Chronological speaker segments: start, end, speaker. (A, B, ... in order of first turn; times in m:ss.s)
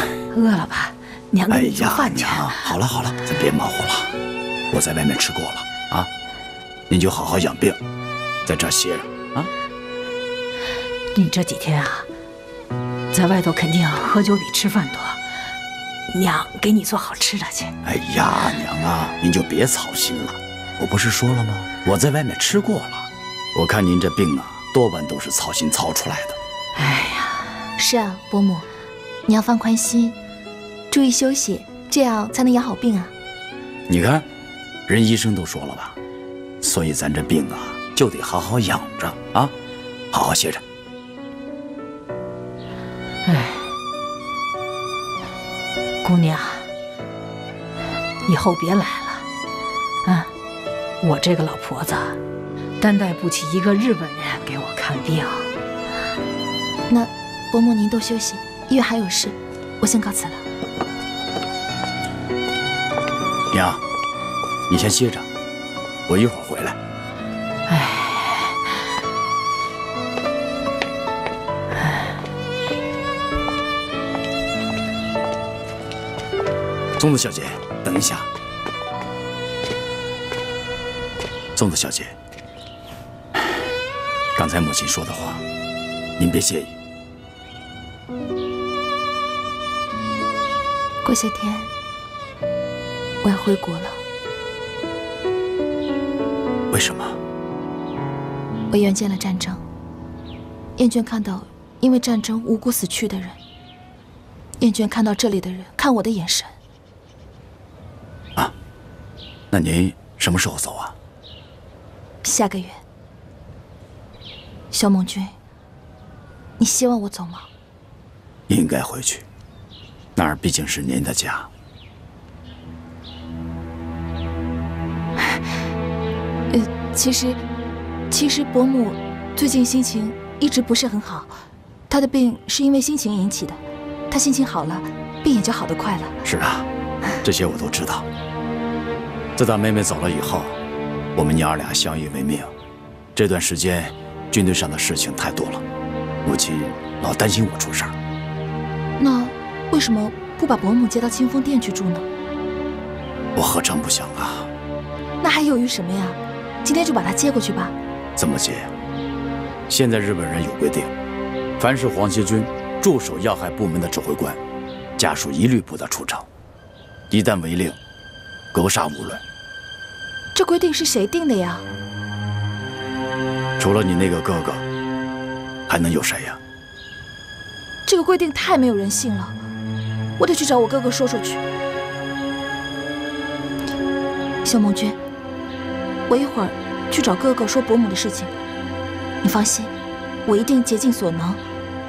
0:00.3-0:02.7 A
0:01.5-0:04.1 B
0:04.7-0:06.1 B
0:06.9-0:07.8 B
0:08.4-0:09.5 B
0:11.1-0:12.1 A
0:13.1-0:15.2 A
0:16.1-0:17.7 A
0:17.8-0:26.4 B
0:26.8-0:27.5 A
0:27.8-0:28.6 C
0:29.3-0:30.2 C
0:30.9-0:33.1 C
0:33.9-0:34.2 B
0:34.9-0:36.0 B
0:36.6-0:39.5 B
0:40.1-0:40.6 B
0:43.2-0:43.7 A
0:46.0-0:46.7 A
0:48.2-0:49.3 A
0:50.0-0:50.3 A
0:51.0-0:52.2 A
0:52.8-0:55.5 A
0:56.9-1:00.4 C
1:03.5-1:03.8 B
1:04.7-1:05.3 B
1:06.1-1:06.8 B
1:07.7-1:08.6 A
1:17.0-1:18.3 B
1:21.5-1:22.1 B
1:24.4-1:25.4 B
1:26.2-1:26.7 B
1:31.0-1:31.7 C
1:33.2-1:34.0 C
1:36.7-1:37.2 B
1:38.7-1:39.6 C
1:40.8-1:43.4 C
1:44.6-1:46.5 C
1:49.5-1:50.9 B
1:52.2-1:52.7 C
1:54.7-1:55.3 C
1:56.6-1:57.5 C
1:58.5-1:59.3 B
2:00.2-2:01.5 B
2:06.5-2:07.4 C
2:08.1-2:11.3 C
2:11.9-2:16.2 C
2:16.2-2:16.7 B
2:17.2-2:18.1 B
2:19.4-2:20.6 B
2:21.1-2:22.5 B
2:23.1-2:25.6 B
2:26.2-2:27.9 B
2:29.0-2:32.0 C
2:33.3-2:34.5 B
2:35.2-2:37.7 C
2:38.2-2:38.7 B
2:39.7-2:40.9 B
2:41.6-2:44.4 B
2:45.0-2:46.3 B
2:47.1-2:47.8 B
2:48.5-2:49.2 B
2:50.3-2:51.6 C
2:53.6-2:54.6 B
2:55.7-2:56.4 B
2:57.9-2:59.4 C
3:00.2-3:01.4 C
3:04.4-3:05.0 C
3:06.1-3:08.3 C
3:09.2-3:09.7 C
3:10.2-3:11.4 C